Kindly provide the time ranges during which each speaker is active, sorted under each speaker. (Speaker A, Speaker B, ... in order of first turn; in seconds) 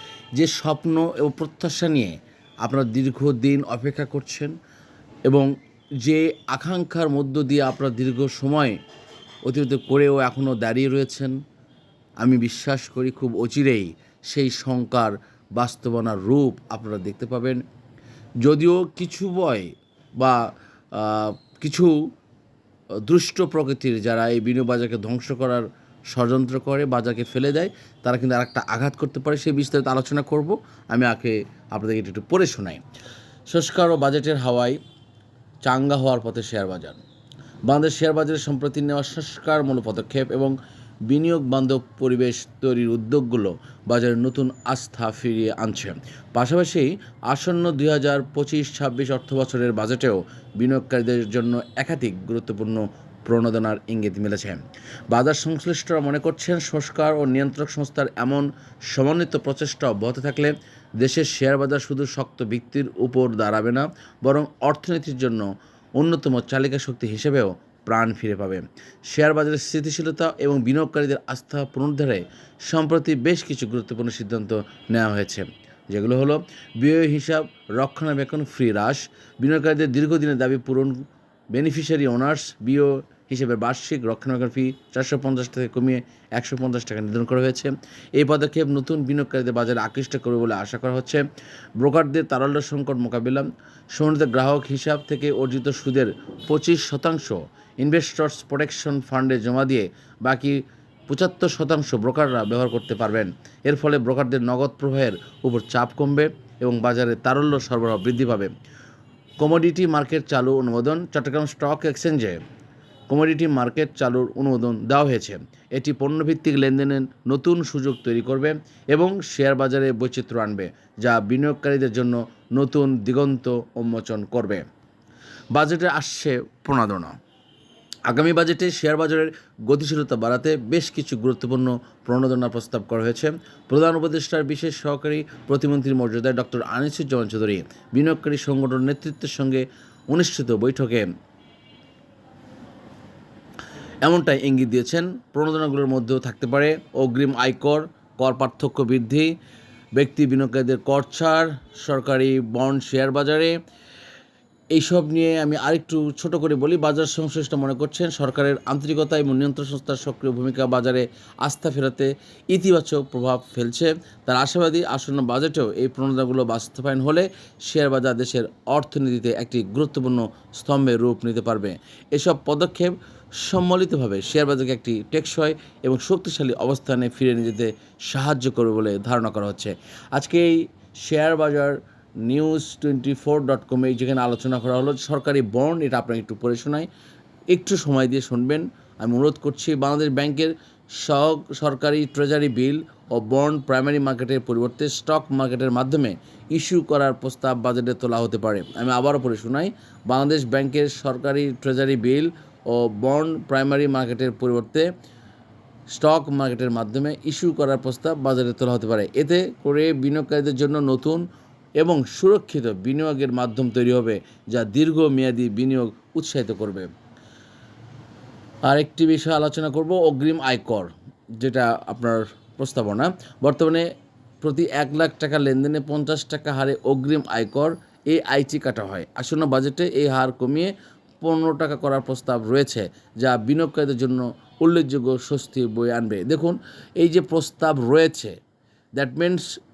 Speaker A: 0.4-4.5, 6.0-8.8, 9.5-11.4, 12.2-17.6, 18.4-20.4, 20.9-22.0, 23.1-32.8, 33.5-34.8, 35.7-37.0, 37.7-40.5, 41.1-81.0, 81.5-91.2, 91.8-108.5, 109.4-112.4, 113.1-124.7, 125.5-127.2, 128.1-141.1, 144.0-149.3, 150.0-153.5, 154.7-186.9, 187.5-204.9, 205.9-211.2, 211.8-216.9, 218.7-223.8, 224.4-238.4, 239.0-239.5